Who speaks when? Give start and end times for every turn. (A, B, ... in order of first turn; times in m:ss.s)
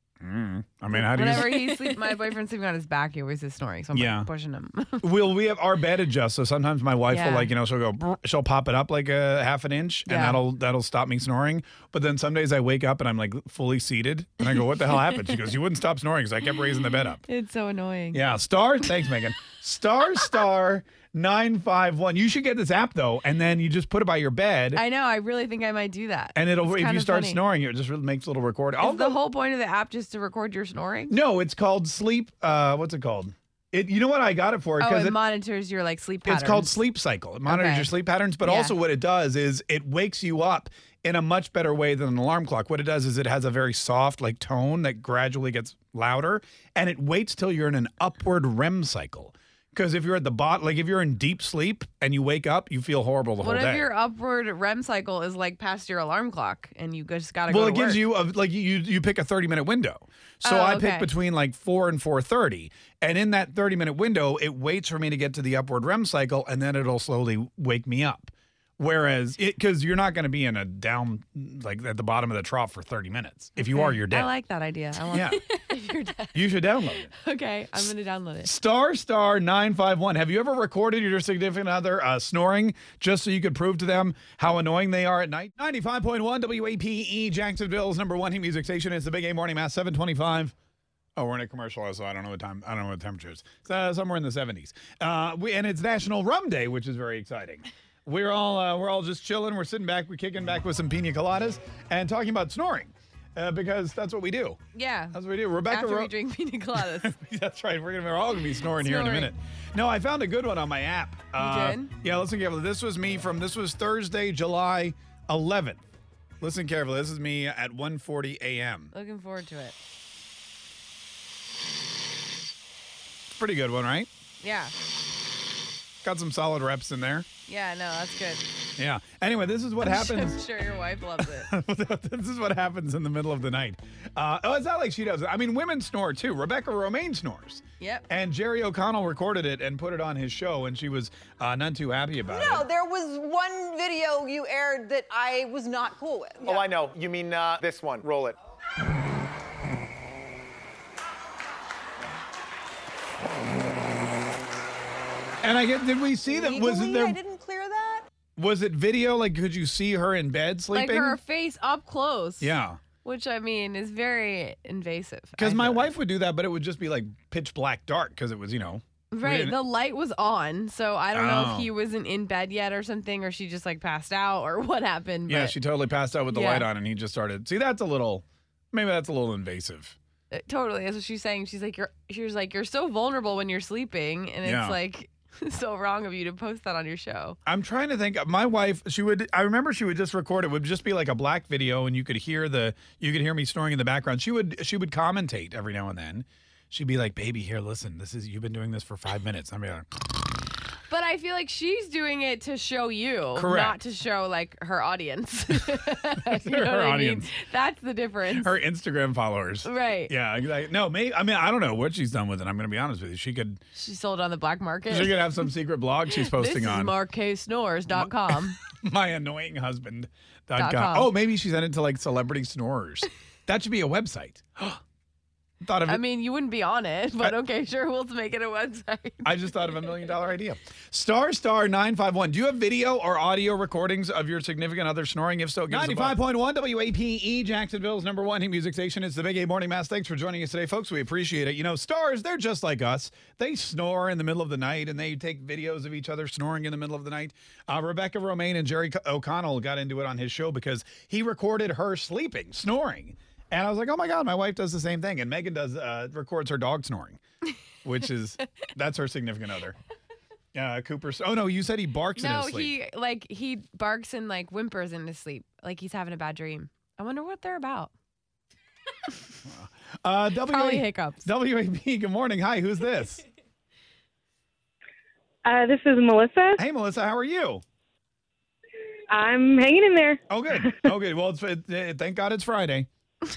0:00.2-0:02.3 A
0:00.9-0:05.1 B
0:03.9-0:04.3 A
0:05.0-0:17.2 A
0:07.1-0:07.5 B
0:10.1-0:10.4 B
0:17.2-0:18.3 B
0:18.1-0:24.8 A
0:24.7-0:27.4 B
0:26.3-0:29.2 A
0:28.8-0:31.1 B
0:31.1-0:35.2 A
0:34.8-0:36.8 B
0:36.2-0:53.9 A
0:37.5-0:37.9 B
0:38.4-0:38.7 B
0:53.4-0:58.0 B
0:57.5-1:14.3 A
1:00.4-1:01.1 B
1:13.6-1:18.5 B
1:15.1-1:15.4 A
1:16.3-1:17.1 A
1:18.4-1:30.5 A
1:31.2-1:44.6 A
1:44.7-1:47.1 B
1:45.1-1:46.1 A
1:46.7-1:55.8 A
1:48.7-1:49.3 B
1:51.3-1:51.9 B
1:56.4-1:58.9 A
1:58.9-1:59.8 B
2:03.3-2:04.1 A
2:04.4-2:04.7 B
2:06.0-2:07.2 A
2:07.4-2:08.5 B
2:08.8-2:10.4 A
2:09.8-2:11.5 B
2:11.2-2:22.6 A
2:17.8-2:18.1 B
2:22.3-2:26.6 C
2:26.4-2:28.4 D
2:35.4-2:37.2 A
2:36.3-2:38.0 C
2:38.4-2:41.2 A
2:40.7-2:45.9 B
2:42.4-2:42.8 A
2:45.4-2:49.6 A
2:49.1-2:55.6 B
2:51.1-2:51.7 A
2:55.3-3:00.0 A
2:56.3-2:56.7 B
3:00.3-3:07.4 B
3:04.4-3:04.8 A
3:07.4-3:20.5 A
3:20.9-3:28.5 B
3:23.4-3:23.8 A
3:25.7-3:27.3 A
3:28.3-3:33.6 A
3:29.6-3:30.1 B
3:33.7-3:35.5 B
3:34.9-3:37.0 A
3:36.1-3:38.6 B
3:37.9-3:44.8 A
3:40.6-3:41.1 B
3:45.6-3:46.0 A
3:45.8-3:49.4 B
3:49.2-4:17.2 A
4:17.8-4:19.8 A
4:20.5-4:22.8 A
4:22.1-4:27.9 B
4:29.4-4:33.2 A
4:30.4-4:31.3 B
4:35.4-4:36.6 E
4:36.6-4:37.6 A
4:39.1-4:40.2 E
4:40.3-4:42.9 A